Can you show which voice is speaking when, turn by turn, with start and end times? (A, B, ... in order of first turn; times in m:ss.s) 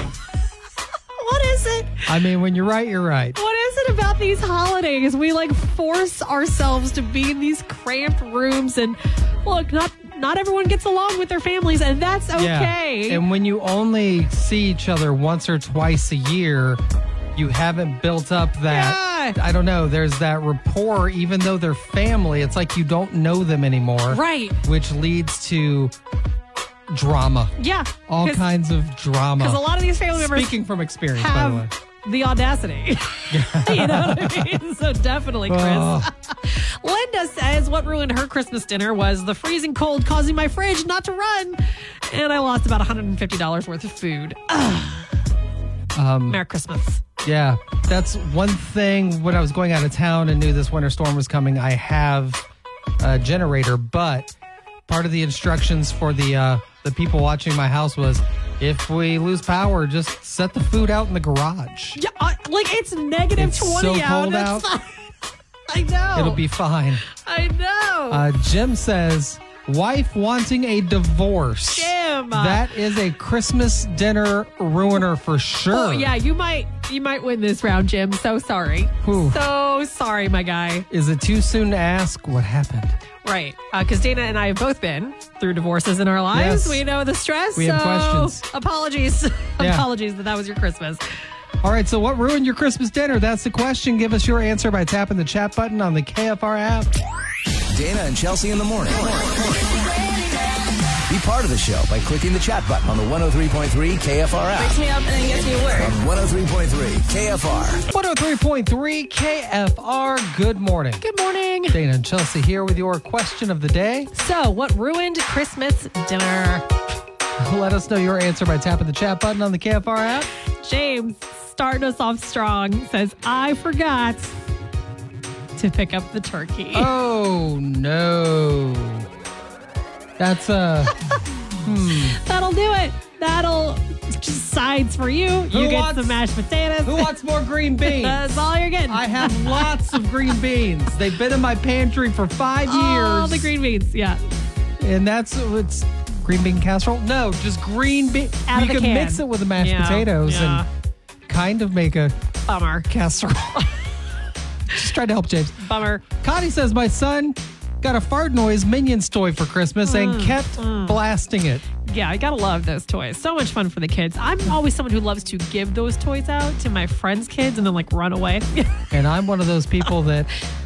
0:01.2-0:02.1 A
0:02.1-0:03.4 B
0:03.4-0:13.2 A
0:12.4-0:16.8 B
0:17.4-0:25.9 B
0:18.7-0:19.4 A
0:24.1-0:24.6 A
0:26.9-0:27.5 B
0:27.6-0:28.5 A
0:28.1-0:31.7 B
0:29.4-0:30.6 A
0:31.2-0:45.1 A
0:33.3-0:34.6 B
0:35.5-0:36.1 B
0:46.0-0:46.4 B
0:46.3-0:47.0 A
0:47.2-0:52.4 B
0:53.0-0:54.3 B
0:54.9-1:02.0 B
1:02.0-1:04.9 A
1:03.4-1:04.7 B
1:05.7-1:06.4 A
1:06.1-1:07.0 B
1:07.1-1:08.2 A
1:08.1-1:16.1 B
1:11.7-1:12.7 A
1:15.7-1:20.9 A
1:19.0-1:19.4 B
1:20.9-1:23.0 B
1:23.2-1:31.0 A
1:26.3-1:26.8 B
1:27.6-1:28.4 B
1:29.6-1:29.9 B
1:31.6-1:36.9 B
1:37.7-1:39.6 C
1:39.8-1:40.3 D
1:41.1-1:44.8 C
1:44.6-1:46.0 D
1:45.8-1:47.8 C
1:47.9-1:51.0 B
1:51.0-1:51.8 A
1:51.7-1:54.1 B
1:54.1-1:56.7 A
1:57.4-2:00.3 B
2:00.6-2:04.4 A
2:05.6-2:06.9 A
2:06.7-2:09.1 B
2:10.2-2:10.9 B
2:11.6-2:12.2 B
2:12.2-2:17.1 A
2:15.5-2:16.2 B
2:16.8-2:23.6 B
2:17.8-2:20.0 A
2:22.7-2:24.2 A
2:24.8-2:30.6 B
2:28.5-2:30.7 A
2:31.3-2:32.2 B
2:32.5-2:32.9 A
2:32.9-2:33.6 B
2:34.7-2:41.6 B
2:35.6-2:36.0 A
2:39.8-2:41.0 A
2:41.8-2:48.9 A
2:48.9-2:50.3 B